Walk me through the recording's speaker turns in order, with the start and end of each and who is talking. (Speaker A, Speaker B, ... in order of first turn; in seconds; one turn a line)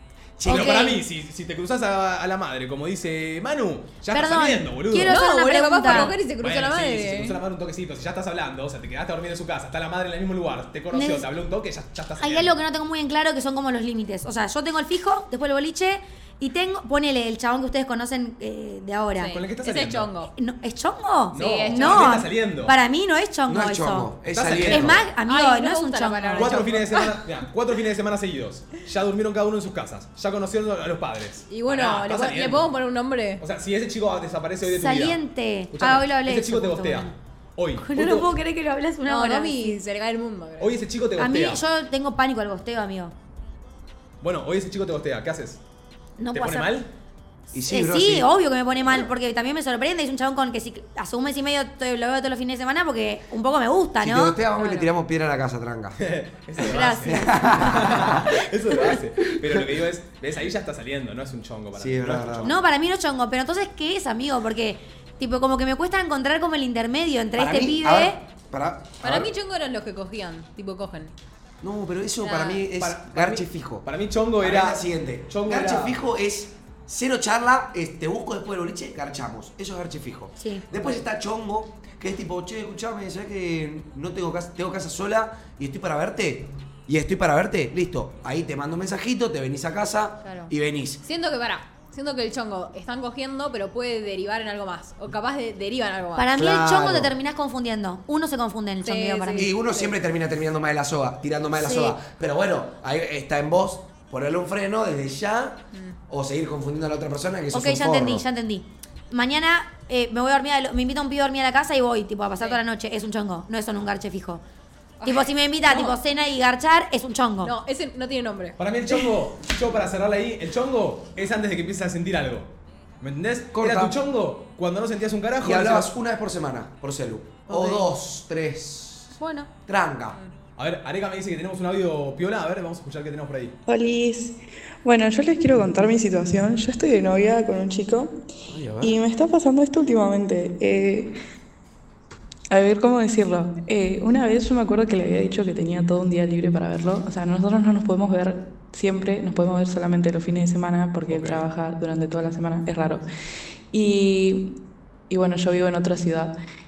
Speaker A: 0.4-0.9
Speaker B: 0.4-5.2
Speaker C: 0.4-1.0
Speaker C: 4.1-6.1
Speaker D: 5.0-7.4
Speaker B: 5.8-12.6
Speaker C: 10.9-11.3
Speaker C: 12.2-19.4
Speaker D: 19.2-20.3
Speaker B: 19.2-20.1
Speaker C: 20.4-24.1
Speaker B: 21.3-22.7
Speaker D: 21.3-22.2
Speaker A: 23.4-25.1
Speaker B: 24.3-25.0
Speaker C: 24.6-26.6
Speaker D: 25.2-27.2
Speaker B: 26.4-32.7
Speaker D: 31.5-33.4
Speaker B: 33.4-38.3
Speaker C: 34.6-37.1
Speaker C: 37.8-39.8
Speaker D: 39.0-40.8
Speaker B: 40.6-41.6
Speaker C: 41.2-43.1
Speaker B: 44.2-45.6
Speaker C: 46.2-46.7
Speaker B: 46.3-46.9
Speaker A: 47.5-48.3
Speaker C: 47.7-54.4
Speaker A: 54.0-56.1
Speaker D: 54.6-54.9
Speaker B: 56.0-62.6
Speaker C: 56.6-58.2
Speaker A: 57.0-58.4
Speaker A: 59.2-59.7
Speaker A: 61.7-62.6
Speaker C: 62.4-68.2
Speaker A: 67.3-69.3
Speaker D: 69.0-71.1
Speaker A: 71.6-73.8
Speaker D: 72.2-72.7
Speaker B: 72.7-76.0
Speaker A: 74.4-91.0
Speaker C: 80.4-80.6
Speaker D: 90.2-90.5
Speaker D: 91.0-96.3
Speaker C: 96.2-99.5
Speaker A: 96.3-97.1
Speaker D: 98.8-99.9
Speaker A: 99.3-108.2
Speaker C: 101.6-102.0
Speaker C: 107.5-114.4
Speaker D: 112.4-112.6
Speaker D: 115.0-116.0
Speaker C: 115.0-117.5
Speaker D: 117.4-119.0
Speaker B: 118.6-125.9
Speaker A: 123.5-124.0
Speaker A: 125.4-129.1
Speaker C: 129.2-129.5
Speaker A: 129.7-130.2
Speaker B: 130.6-133.6
Speaker E: 133.7-138.2
Speaker A: 138.5-139.0
Speaker E: 138.8-141.1
Speaker E: 142.5-153.1
Speaker B: 151.1-151.4
Speaker E: 153.7-154.6
Speaker E: 155.1-156.3